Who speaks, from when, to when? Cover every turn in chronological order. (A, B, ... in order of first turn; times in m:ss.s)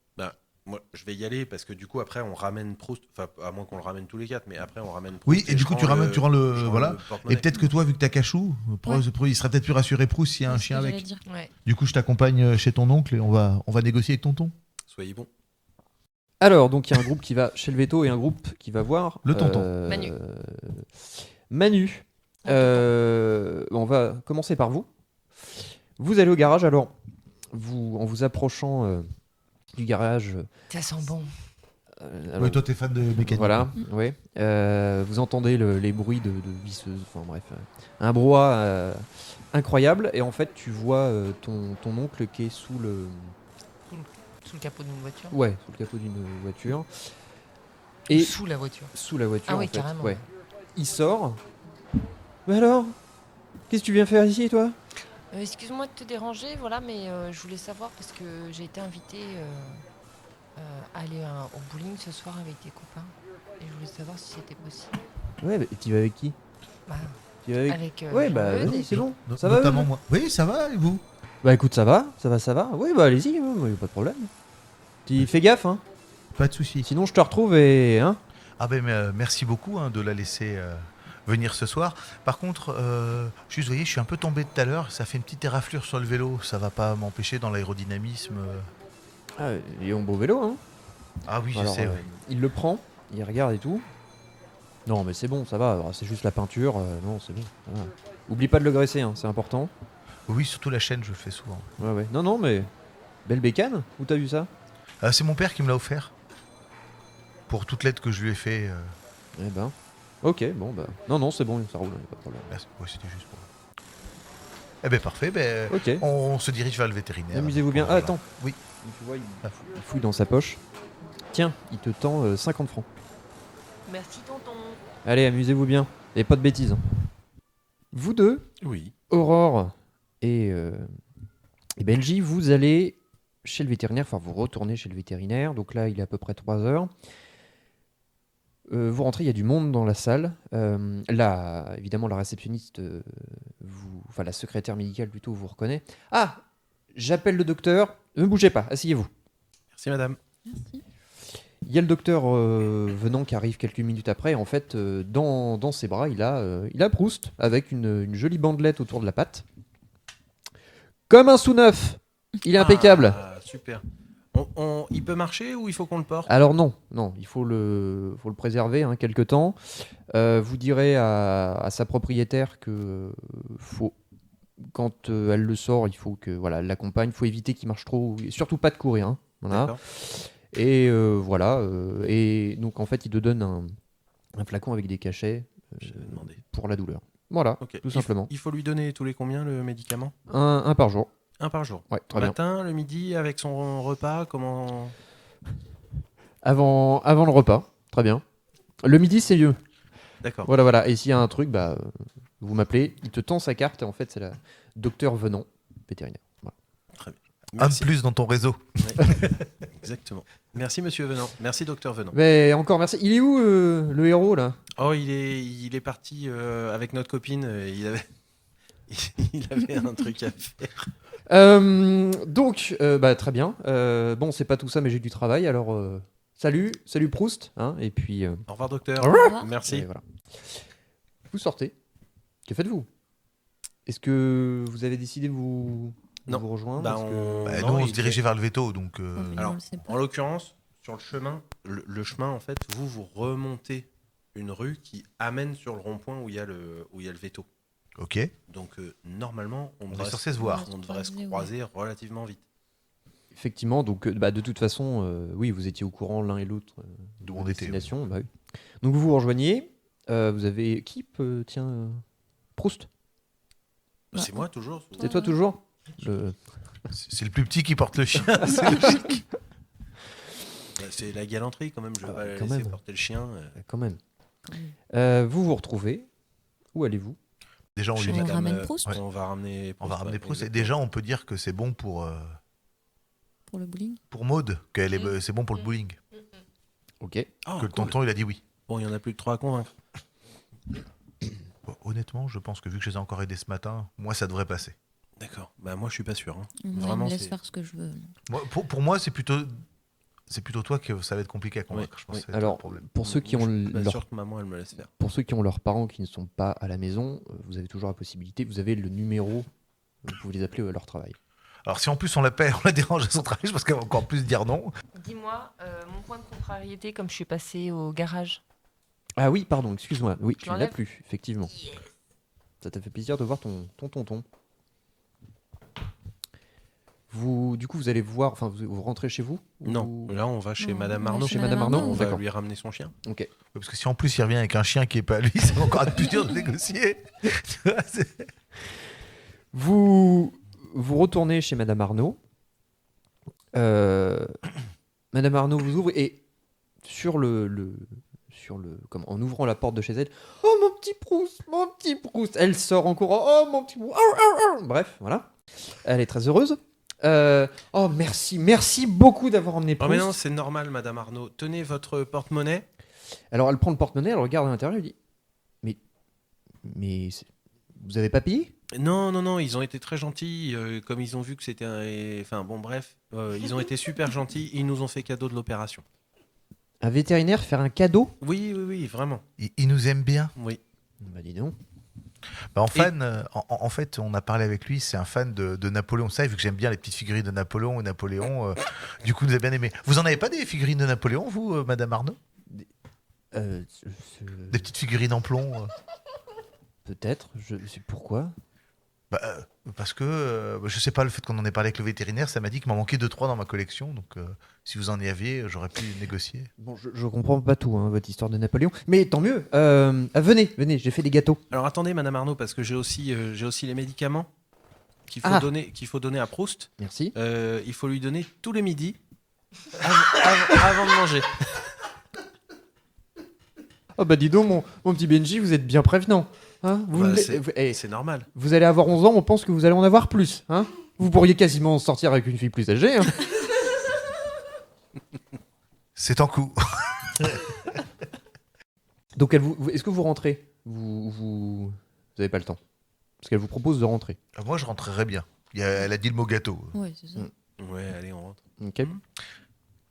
0:00.2-0:07.6 A
0:05.3-0:11.0 B
0:10.5-0:11.2 C
0:11.3-0:11.5 D
0:11.6-0:14.5 B
0:14.9-0:15.3 A
0:16.4-0:24.9 E
0:19.2-0:19.7 B
0:22.4-0:22.9 D
0:25.5-0:26.9 E
0:27.5-0:29.1 E
0:29.7-0:30.5 E
0:30.7-0:31.3 D
0:32.0-0:32.6 E
0:32.4-0:33.7 B
0:33.2-0:43.4 E
0:43.9-0:45.4 D
0:45.3-0:47.1 E
0:48.1-0:48.4 E
0:48.1-0:48.9 D
0:48.9-0:50.2 E
0:49.4-0:50.2 D
0:50.8-0:51.4 E
0:52.4-0:53.0 E
0:53.7-0:54.8 E
0:55.3-0:59.8 D
1:00.6-1:05.0 D
1:05.4-1:06.4 E
1:06.9-1:09.0 D
1:07.4-1:09.9 E
1:08.6-1:11.0 B
1:11.4-1:14.3 E
1:15.0-1:15.8 E
1:16.4-1:16.9 B
1:16.8-1:18.2 E
1:18.6-1:28.7 B
1:29.4-1:30.6 E
1:31.3-1:32.0 B
1:31.5-1:33.9 E
1:34.9-1:39.7 E
1:40.3-1:41.7 B
1:41.8-1:42.7 E
1:43.3-1:44.5 E
1:45.0-1:46.1 B
1:47.5-1:49.0 B
1:49.4-1:52.5 E
1:52.5-1:53.5 B
1:54.8-1:58.6 B
1:55.7-1:56.0 E
1:57.3-1:58.2 E
1:58.8-2:00.6 E
2:01.3-2:02.9 E
2:03.9-2:04.8 D
2:05.0-2:06.8 E
2:07.9-2:08.5 E
2:08.6-2:08.9 A
2:09.1-2:10.9 E
2:11.8-2:16.9 E
2:18.7-2:26.4 E
2:26.9-2:29.1 E
2:29.7-2:30.2 A
2:30.5-2:30.8 C
2:31.6-2:39.4 E
2:41.1-2:43.2 E
2:42.5-2:43.8 A
2:44.3-2:46.3 A
2:46.3-2:54.0 E
2:54.6-3:03.8 E
2:59.5-2:59.8 A
3:04.4-3:08.3 E
3:05.8-3:06.4 A
3:07.6-3:10.1 A
3:10.3-3:11.1 E
3:11.4-3:15.0 A
3:11.9-3:12.4 E
3:16.4-3:18.2 E
3:18.8-3:19.6 E
3:20.2-3:20.5 A
3:20.4-3:26.5 E
3:27.0-3:27.9 A
3:27.6-3:29.3 B
3:28.8-3:29.1 A
3:29.7-3:32.2 A
3:32.1-3:34.6 E
3:34.8-3:38.1 A
3:38.9-3:40.9 A
3:41.3-3:48.4 E
3:48.5-3:49.9 A
3:49.0-3:50.6 E
3:49.1-3:49.5 C
3:51.3-3:51.7 E
3:52.4-3:52.9 E
3:53.9-3:57.6 E
3:56.3-3:58.2 A
3:57.4-3:59.5 B
3:59.2-4:00.0 C
3:59.4-4:07.5 A
4:08.0-4:08.3 B
4:08.5-4:12.4 A
4:09.9-4:10.7 B
4:10.4-4:11.5 C
4:13.3-4:18.3 E
4:17.2-4:17.9 B
4:18.8-4:22.0 E
4:22.6-4:22.9 E
4:24.1-4:25.1 A
4:24.1-4:24.5 C
4:25.0-4:25.4 C
4:25.0-4:26.4 E
4:26.9-4:29.2 B
4:30.8-4:33.6 A
4:32.0-4:32.8 E
4:33.6-4:34.0 E
4:34.4-4:34.7 C
4:34.9-4:36.1 E
4:36.7-4:37.2 E
4:37.8-4:39.0 B
4:38.0-4:40.7 A
4:38.0-4:39.0 C
4:39.8-4:42.4 B
4:43.5-4:44.0 C
4:44.1-4:46.0 B
4:47.0-4:47.3 E
4:47.4-4:48.0 A
4:47.6-4:48.4 B
4:48.7-4:49.7 A
4:51.6-4:54.8 B
4:55.2-4:57.4 A
4:56.6-4:58.1 C
4:58.3-4:59.6 B
5:00.3-5:02.8 B
5:01.7-5:02.2 A
5:02.3-5:04.0 E
5:03.0-5:04.9 A
5:05.0-5:09.5 E
5:10.0-5:11.2 E
5:11.6-5:14.7 B
5:15.0-5:18.4 D
5:19.2-5:21.5 E
5:20.4-5:20.8 D
5:22.6-5:24.2 E
5:27.1-5:30.2 E
5:29.6-5:32.9 A
5:30.6-5:32.1 C
5:31.2-5:32.2 E
5:33.0-5:33.3 E
5:33.5-5:38.3 B
5:39.5-5:42.2 E
5:43.5-5:44.4 E
5:45.1-5:46.2 E
5:46.8-6:00.1 E
5:59.8-6:02.7 A
6:03.3-6:05.0 E
6:06.6-6:08.5 E
6:08.7-6:15.8 A
6:16.8-6:18.1 E
6:18.2-6:19.2 A
6:19.4-6:20.3 B
6:21.0-6:21.6 E
6:22.5-6:32.2 B
6:33.3-6:34.7 E
6:34.5-6:35.7 B
6:36.8-6:38.4 E
6:39.1-6:46.5 B
6:46.6-6:51.4 E
6:51.5-6:54.3 A
6:55.1-6:59.0 A
6:55.2-6:55.5 E
6:56.8-6:57.1 E
6:59.8-7:01.4 A
7:04.0-7:07.8 E
7:06.9-7:08.3 A
7:08.3-7:13.3 E
7:16.0-7:17.8 B
7:19.2-7:22.6 E
7:23.2-7:24.2 E
7:24.4-7:26.7 B
7:26.7-7:27.3 C
7:27.6-7:29.0 A
7:28.6-7:29.0 E